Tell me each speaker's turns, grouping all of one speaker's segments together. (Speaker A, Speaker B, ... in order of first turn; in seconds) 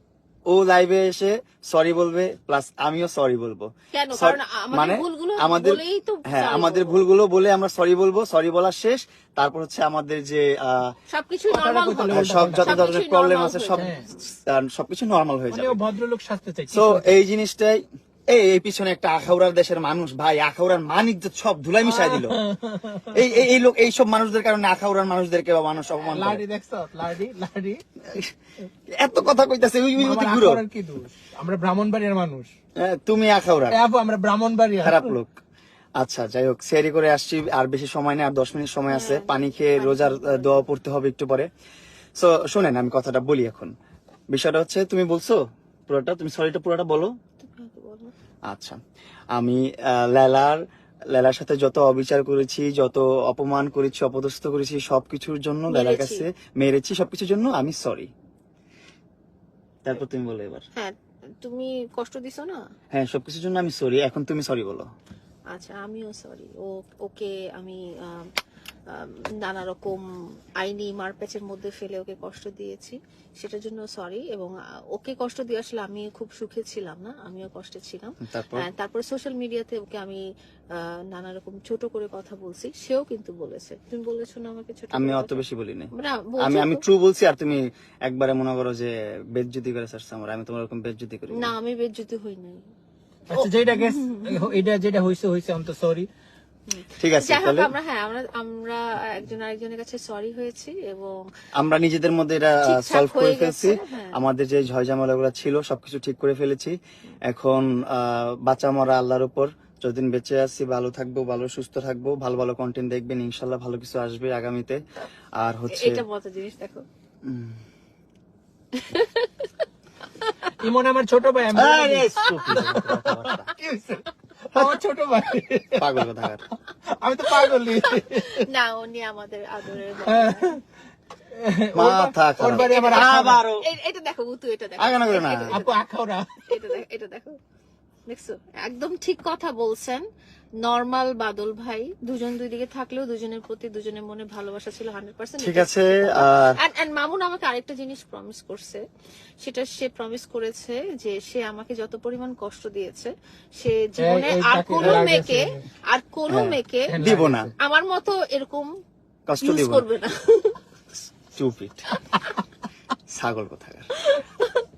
Speaker A: 0.5-10.9, 12.1-13.9, 14.4-15.8, 16.7-22.3, 23.1-26.4, 28.9-30.6, 32.8-33.8, 34.8-35.4, 36.0-41.5, 42.2-43.7, 44.3-45.4, 45.9-47.1, 48.5-48.8, 49.3-50.6, 51.1-58.1, 59.8-60.6, 62.9-64.9, 78.3-78.7, 84.9-91.5, 97.0-97.7, 101.6-106.8, 107.3-114.8, 115.4-116.0, 117.2-117.6, 121.5-123.5, 125.8-126.4, 131.7-133.6, 134.8-135.5, 145.4-146.6, 154.8-155.1, 156.3-157.5, 159.3-159.8, 161.3-161.8, 163.1-163.8
Speaker B: 3.9-7.0, 11.1-14.2, 38.9-40.7, 47.4-48.1, 55.7-56.2, 60.7-62.6, 65.5-68.3, 68.9-70.0, 70.6-80.2, 80.7-85.4, 85.9-86.8, 91.3-92.6, 93.3-94.4, 96.7-101.2, 102.6-104.2, 115.7-116.8, 118.7-119.6, 127.6-130.6, 132.5-135.6, 136.5-137.4, 138.1-140.0, 140.6-148.8, 149.4-157.0, 157.6-158.7, 159.4-160.6, 164.0-164.6
Speaker C: 11.5-12.9, 13.7-14.1, 15.5-17.1, 21.9-23.3, 26.0-27.8, 30.0-32.5, 33.7-35.1, 93.3-96.1, 120.6-126.0, 127.0-128.4, 130.1-130.6, 131.3-133.4, 135.5-136.5, 154.0-155.6, 156.9-157.5